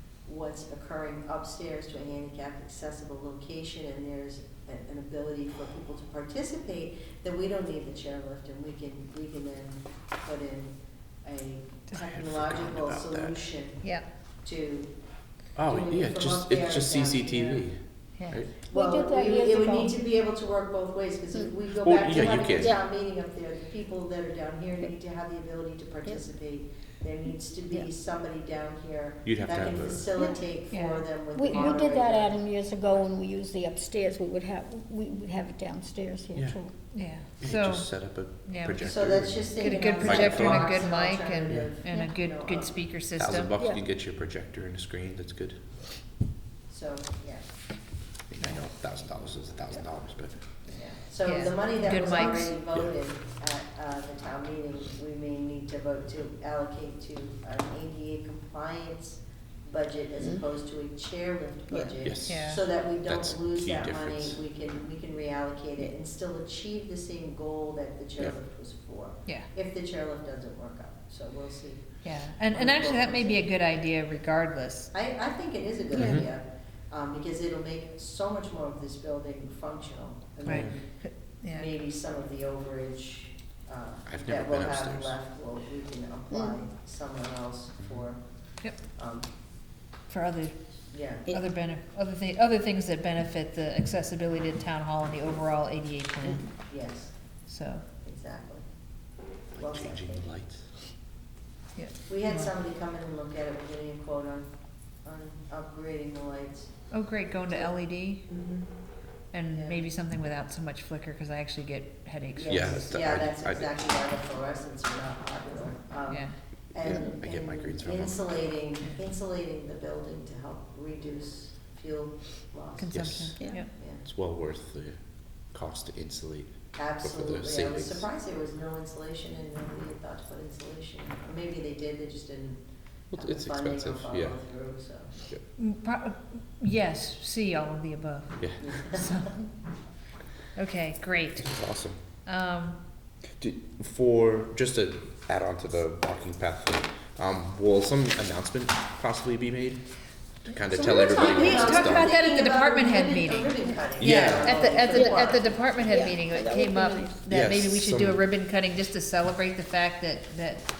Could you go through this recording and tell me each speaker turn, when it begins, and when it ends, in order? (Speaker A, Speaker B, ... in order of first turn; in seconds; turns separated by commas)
Speaker A: 0.2-13.8, Speaker B: 11.9-13.4, Speaker A: 14.4-14.9, Speaker B: 15.6-18.5, Speaker A: 15.7-17.3, Speaker C: 17.3-17.6, Speaker C: 18.2-18.4, Speaker D: 18.7-20.0, Speaker A: 18.7-32.4, Speaker B: 21.7-22.7, Speaker D: 22.5-22.8, Speaker B: 29.2-30.1, Speaker C: 30.7-31.8, Speaker D: 31.3-36.7, Speaker C: 36.9-37.9, Speaker B: 37.4-40.8, Speaker C: 38.4-38.9, Speaker A: 38.8-42.7, Speaker C: 39.6-43.5, Speaker D: 41.9-42.1, Speaker B: 43.2-45.6, Speaker A: 46.7-47.4, Speaker B: 48.3-50.4, Speaker A: 50.7-71.8, Speaker C: 51.2-52.5, Speaker B: 62.0-64.3, Speaker C: 62.3-62.6, Speaker C: 72.0-74.9, Speaker A: 72.5-73.5, Speaker A: 74.9-80.8, Speaker B: 75.9-76.3, Speaker C: 80.4-81.7, Speaker B: 80.5-80.7, Speaker A: 81.5-88.2, Speaker B: 84.0-85.1, Speaker A: 88.9-89.3, Speaker C: 90.1-90.5, Speaker A: 90.9-91.3, Speaker C: 91.3-96.5, Speaker A: 96.7-97.1, Speaker C: 97.5-97.8, Speaker A: 98.0-98.6, Speaker B: 99.5-100.6, Speaker A: 99.6-100.2, Speaker C: 101.8-102.5, Speaker A: 102.1-104.5, Speaker A: 105.0-106.7, Speaker C: 106.9-108.2, Speaker A: 108.3-108.7, Speaker C: 109.3-112.8, Speaker A: 109.5-109.8, Speaker A: 112.3-122.9, Speaker B: 112.5-113.7, Speaker C: 116.1-116.3, Speaker B: 116.8-118.2, Speaker C: 122.8-123.7, Speaker B: 122.9-123.4, Speaker D: 123.4-123.7, Speaker A: 123.7-124.0, Speaker B: 124.0-125.0, Speaker B: 125.5-128.0, Speaker A: 126.8-132.6, Speaker B: 133.1-134.4, Speaker A: 133.1-135.1, Speaker C: 135.6-139.5, Speaker B: 138.4-138.7, Speaker A: 138.6-139.2, Speaker C: 140.5-141.5, Speaker B: 141.4-142.0, Speaker C: 142.2-142.8, Speaker B: 143.4-149.8, Speaker B: 150.4-152.1, Speaker A: 150.8-155.6, Speaker C: 150.8-160.7, Speaker B: 154.0-154.7, Speaker D: 154.9-157.2, Speaker B: 157.3-158.2